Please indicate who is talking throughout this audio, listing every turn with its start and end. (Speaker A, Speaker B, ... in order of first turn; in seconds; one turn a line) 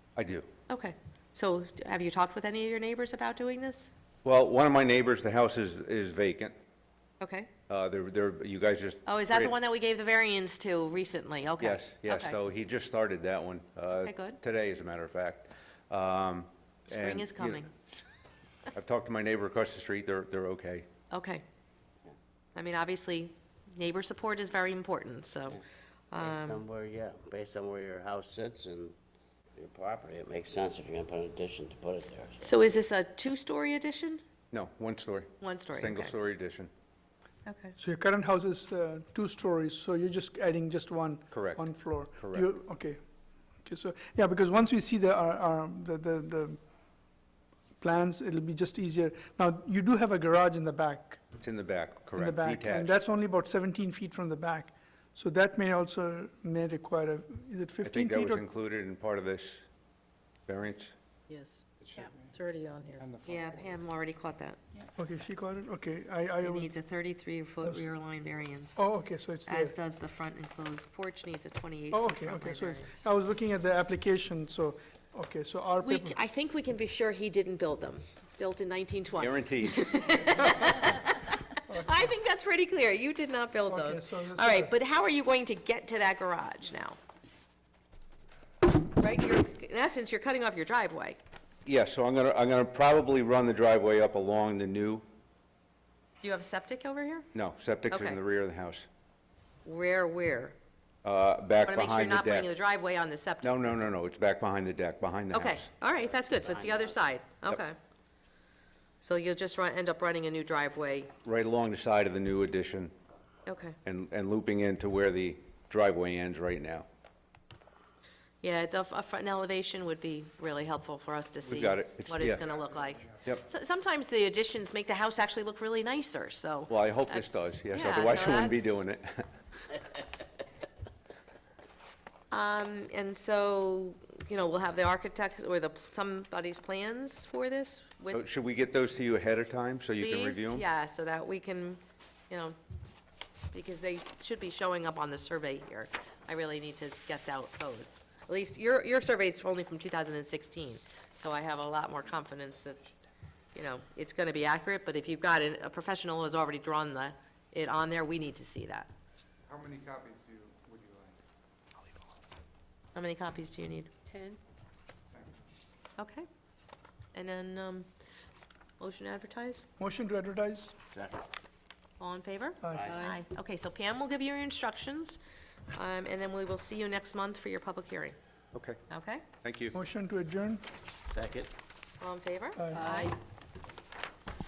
Speaker A: 0.1-0.5
Speaker B: 0.7-3.9
Speaker A: 4.2-6.5
Speaker B: 7.2-7.5
Speaker A: 7.7-9.6
Speaker B: 9.0-12.4
Speaker A: 11.6-17.6
Speaker B: 14.0-14.4
Speaker B: 16.9-17.7
Speaker A: 18.7-20.9
Speaker B: 21.1-21.4
Speaker B: 22.5-25.6
Speaker B: 26.1-26.6
Speaker C: 26.2-28.9
Speaker C: 29.6-32.7
Speaker B: 32.4-34.2
Speaker A: 34.5-36.7
Speaker B: 35.4-36.1
Speaker B: 37.5-37.8
Speaker D: 37.8-43.0
Speaker A: 41.3-41.6
Speaker A: 42.2-42.5
Speaker D: 43.6-46.6
Speaker D: 47.8-51.3
Speaker A: 51.4-52.9
Speaker D: 52.1-58.4
Speaker A: 57.8-59.7
Speaker A: 60.5-60.9
Speaker E: 61.3-63.0
Speaker F: 61.8-62.4
Speaker F: 63.0-63.9
Speaker B: 63.2-64.6
Speaker D: 65.0-66.7
Speaker B: 66.4-68.8
Speaker D: 68.8-69.7
Speaker B: 69.5-73.1
Speaker D: 71.9-76.2
Speaker B: 75.8-87.0
Speaker A: 79.2-79.9
Speaker D: 81.7-82.0
Speaker D: 83.7-84.7
Speaker B: 88.7-91.2
Speaker A: 91.6-95.0
Speaker B: 96.2-97.3
Speaker A: 97.3-98.9
Speaker B: 97.9-98.2
Speaker B: 99.6-100.5
Speaker A: 101.0-102.5
Speaker B: 101.7-103.8
Speaker A: 103.4-105.7
Speaker B: 105.3-107.8
Speaker C: 106.2-106.9
Speaker B: 109.0-111.1
Speaker A: 111.2-112.9
Speaker B: 113.5-113.8
Speaker A: 113.8-116.8
Speaker B: 118.4-128.8
Speaker A: 121.4-122.4
Speaker A: 126.7-129.3
Speaker B: 132.3-138.2
Speaker A: 138.1-140.7
Speaker B: 140.0-142.6
Speaker B: 143.5-152.8
Speaker B: 153.5-158.9
Speaker F: 159.5-161.2
Speaker B: 162.9-163.9
Speaker E: 164.1-164.4
Speaker B: 166.0-166.3
Speaker B: 167.1-167.9
Speaker B: 168.8-169.6
Speaker D: 169.8-170.8
Speaker C: 170.9-171.2
Speaker B: 172.0-175.2
Speaker D: 172.6-173.0
Speaker C: 172.7-173.0
Speaker E: 172.8-173.2
Speaker B: 175.7-178.2
Speaker A: 178.5-178.8
Speaker B: 178.9-179.2
Speaker A: 179.4-179.8
Speaker D: 179.7-180.6
Speaker C: 181.1-181.5
Speaker B: 182.0-183.1
Speaker D: 182.6-182.8
Speaker E: 182.7-183.1